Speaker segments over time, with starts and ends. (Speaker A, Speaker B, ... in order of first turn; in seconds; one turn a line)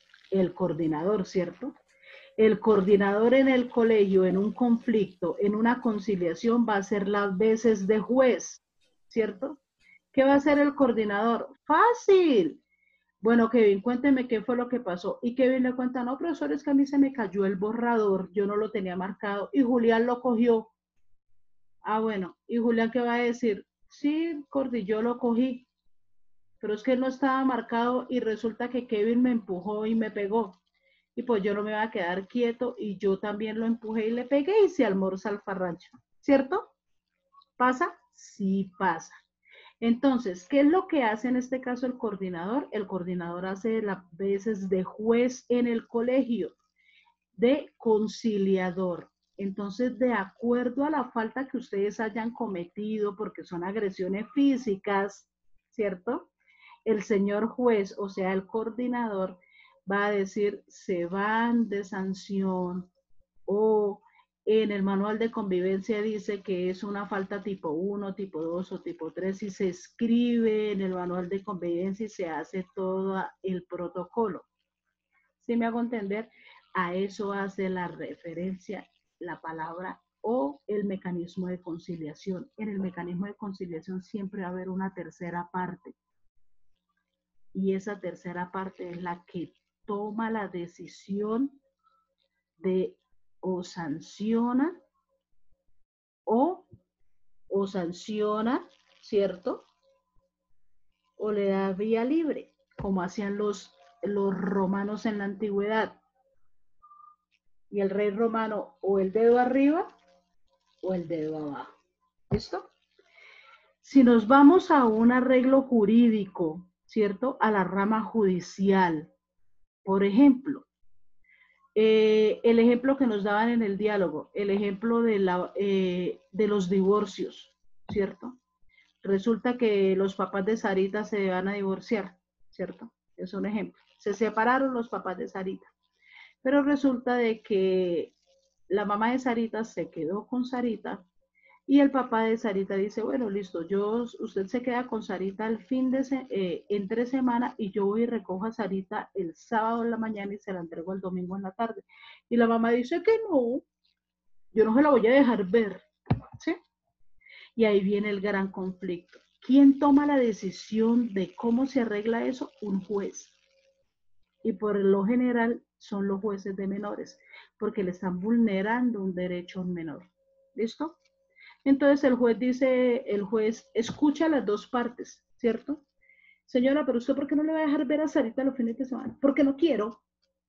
Speaker A: 0.3-1.7
Speaker A: 2.4-9.6
Speaker A: 10.1-12.6
Speaker A: 13.2-20.7
Speaker A: 21.8-25.7
Speaker A: 26.6-30.6
Speaker A: 31.1-36.7
Speaker A: 37.6-39.1
Speaker A: 39.8-46.5
Speaker A: 47.3-56.3
Speaker A: 56.8-62.9
Speaker A: 63.5-74.5
Speaker A: 75.4-85.9
Speaker A: 87.5-91.6
Speaker A: 92.6-94.8
Speaker A: 96.2-96.7
Speaker A: 97.5-99.6
Speaker A: 101.2-106.0
Speaker A: 107.7-109.9
Speaker A: 110.8-111.7
Speaker A: 112.3-112.7
Speaker A: 113.8-119.1
Speaker A: 119.8-120.7
Speaker A: 121.8-128.3
Speaker A: 129.0-135.7
Speaker A: 136.4-138.1
Speaker A: 138.7-141.0
Speaker A: 141.7-153.7
Speaker A: 154.5-155.8
Speaker A: 157.6-163.3
Speaker A: 164.4-171.0
Speaker A: 171.6-175.8
Speaker A: 176.5-180.0